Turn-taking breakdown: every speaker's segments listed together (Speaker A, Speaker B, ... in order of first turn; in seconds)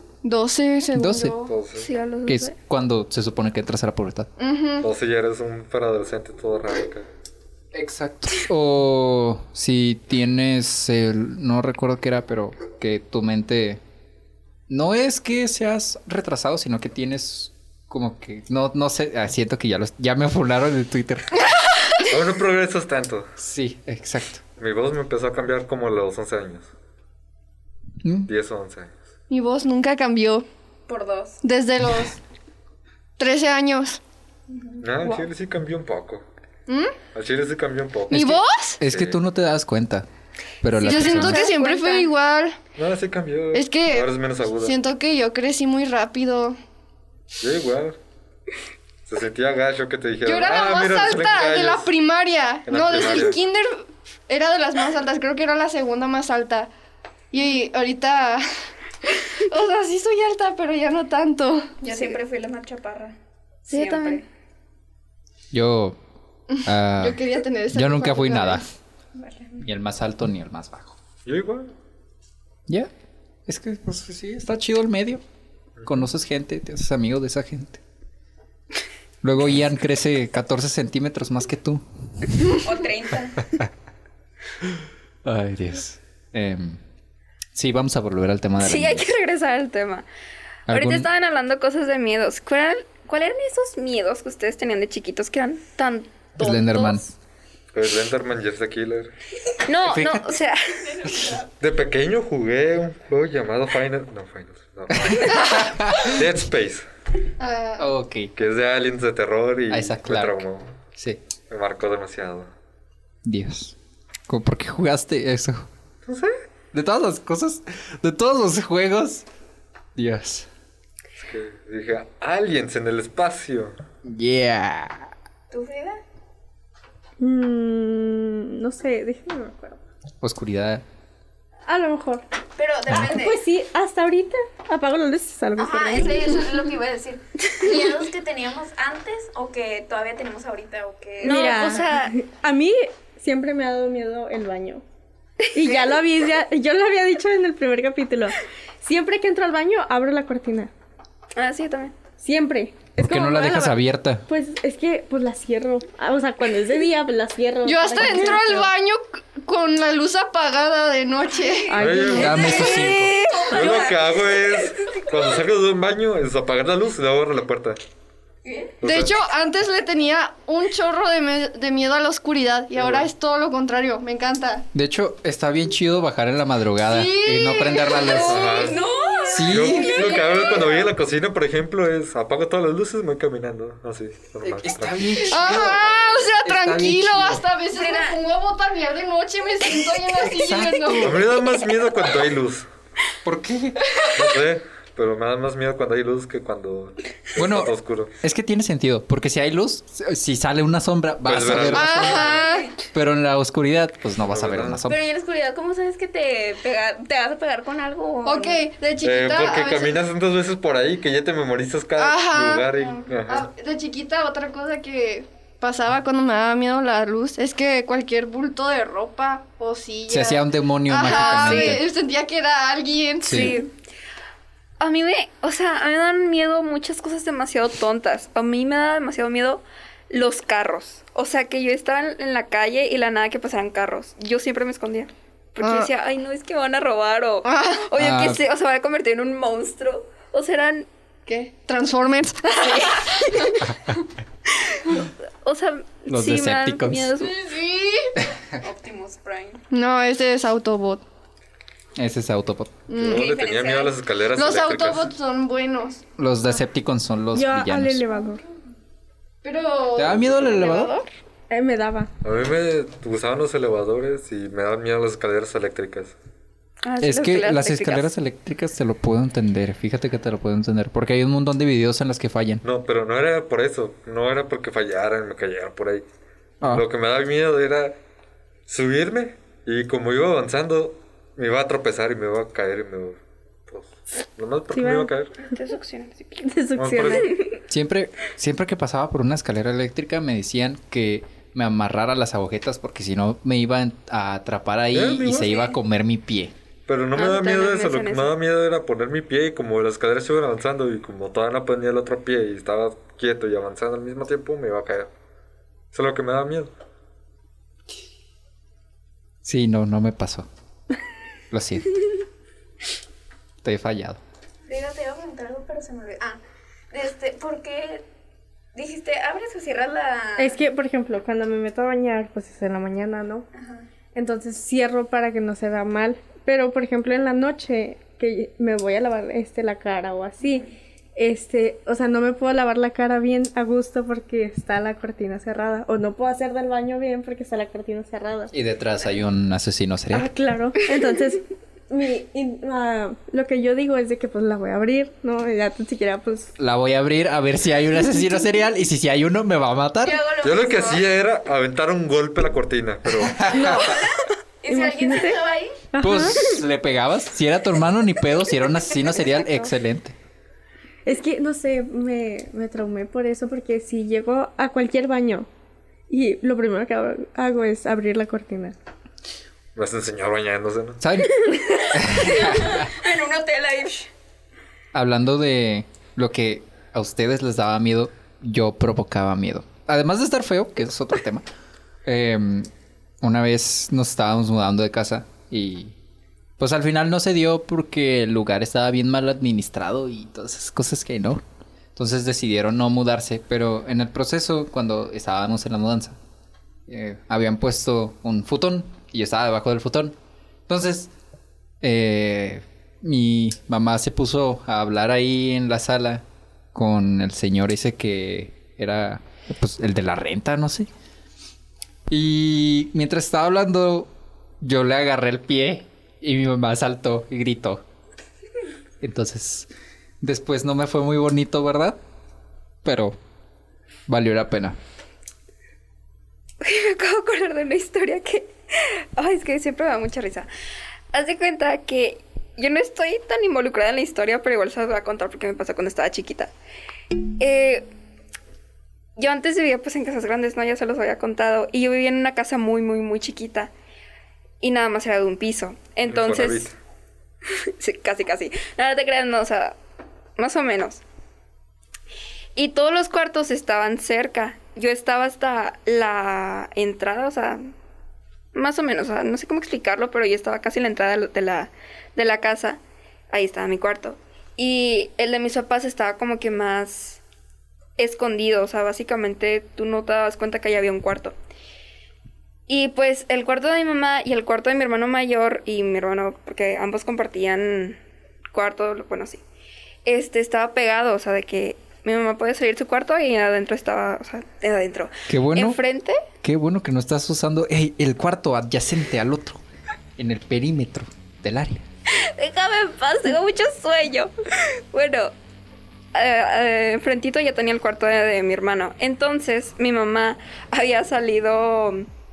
Speaker A: 0.2-1.5, 4.4-4.9, 29.3-30.4, 31.4-32.2, 33.2-34.0, 36.7-36.9, 38.1-38.8, 40.8-42.6, 43.5-44.1, 44.6-46.6, 50.2-56.7, 57.3-58.5, 59.0-61.9, 67.0-68.7, 105.3-105.6, 107.4-107.9, 157.6-161.8, 163.6-163.8, 168.8-174.7, 176.8-178.3, 180.0-180.7, 185.3-191.2, 201.5-202.7, 208.2-210.0, 212.0-212.7, 213.3-223.6, 235.6-235.9, 237.4-237.9, 241.3-243.4, 247.2-248.1, 249.7-251.0, 252.9-253.3, 254.3-256.0, 259.4-261.1
Speaker B: 0.9-1.3, 2.2-4.3, 7.7-13.8, 14.7-21.5, 23.4-24.4, 28.0-28.3, 38.1-40.1, 40.6-41.5, 65.5-66.0, 66.6-68.7, 69.6-71.0, 73.5-75.2, 75.8-77.8, 79.2-82.6, 85.2-86.8, 87.5-89.1, 90.7-91.1, 96.4-97.0, 99.8-100.3, 101.1-101.4, 104.9-106.2, 107.8-108.3, 109.7-110.4, 110.9-111.2, 113.2-113.8, 114.3-115.7, 116.7-119.2, 120.0-120.5, 124.0-125.1, 130.2-130.8, 153.0-154.2, 162.2-163.2, 174.7-178.6, 179.3-180.0, 184.4-187.5, 190.3-191.3, 193.2-193.8, 197.4-202.4, 202.9-205.0, 220.1-221.8, 223.2-223.6, 238.0-238.4, 246.1-247.2, 251.9-252.8, 256.2-258.0, 259.9-260.9, 267.0-272.6, 276.6-276.9, 287.7-296.5, 309.4-310.5, 311.5-311.9, 313.6-314.2, 338.5-340.3, 346.6-350.2, 353.1-353.8, 356.0-360.1, 371.0-372.9, 374.9-381.4, 382.0-382.7, 383.2-385.9, 386.6-391.4, 391.9-396.2, 396.9-400.1, 400.7-401.1, 401.8-410.9, 412.1-414.1, 414.6-417.8, 419.0-419.7, 420.2-422.0, 422.8-423.2, 424.1-424.8, 485.3-485.8, 486.4-489.6, 490.2-491.8
Speaker C: 1.5-1.9, 4.8-7.1, 22.0-23.3, 24.6-26.7, 28.3-28.9, 34.8-36.2, 37.1-39.2, 42.8-44.8, 47.4-48.0, 49.1-51.9, 52.7-53.4, 71.2-71.7, 75.8-76.0, 97.7-99.1, 101.6-106.8, 108.3-110.7, 111.5-112.5, 116.0-116.3, 121.2-123.8, 161.8-162.7, 163.5-167.8, 168.8-169.2, 172.7-173.1, 178.3-178.8, 179.4-186.0, 191.0-192.7, 194.1-198.1, 201.2-202.4, 204.2-204.8, 209.0-213.5, 252.9-255.1, 262.2-266.1, 272.6-276.0, 276.6-278.0, 278.7-285.3, 286.7-287.3, 294.9-295.8, 296.9-305.1, 305.9-306.7, 350.4-353.6, 369.8-371.0, 446.1-446.8
Speaker D: 1.7-2.5, 40.8-42.1, 63.7-64.2, 88.6-90.0, 90.7-97.0, 99.6-101.1, 141.2-142.1, 151.3-151.9, 162.7-163.8, 221.0-221.8, 223.3-223.7, 224.8-240.9, 245.4-247.4, 266.8-268.1, 285.5-286.4, 297.1-298.3, 426.6-430.5, 431.1-436.5, 437.4-437.9, 439.2-443.7, 444.6-446.7, 447.8-449.8, 450.4-451.0, 452.6-457.7, 458.5-467.2, 468.0-471.4, 472.7-478.0, 478.5-479.4, 480.1-486.2, 492.4-494.3, 494.9-495.3, 496.1-502.1
Speaker E: 30.9-31.4, 34.5-35.2, 61.8-63.1, 63.7-64.2, 69.1-69.6, 82.6-83.3, 125.5-126.0, 132.6-133.4, 135.6-141.8, 162.4-165.2, 168.4-168.7, 177.9-180.9, 187.8-188.2, 202.2-202.7, 204.9-208.6, 248.6-249.6, 253.1-253.9, 314.7-316.4, 316.9-318.0, 318.7-320.6, 323.5-323.8, 350.0-351.1, 353.6-354.0, 354.6-355.7, 371.9-374.1
Speaker F: 127.2-129.8, 131.7-132.2, 132.9-136.6, 141.2-144.8, 145.5-150.7, 152.2-158.7, 161.7-162.7, 257.3-258.4, 261.5-262.1, 284.7-285.1, 286.4-287.4, 320.4-323.4, 324.1-338.5, 340.1-346.5, 353.5-353.9, 354.7-356.6, 361.0-365.5, 366.1-368.8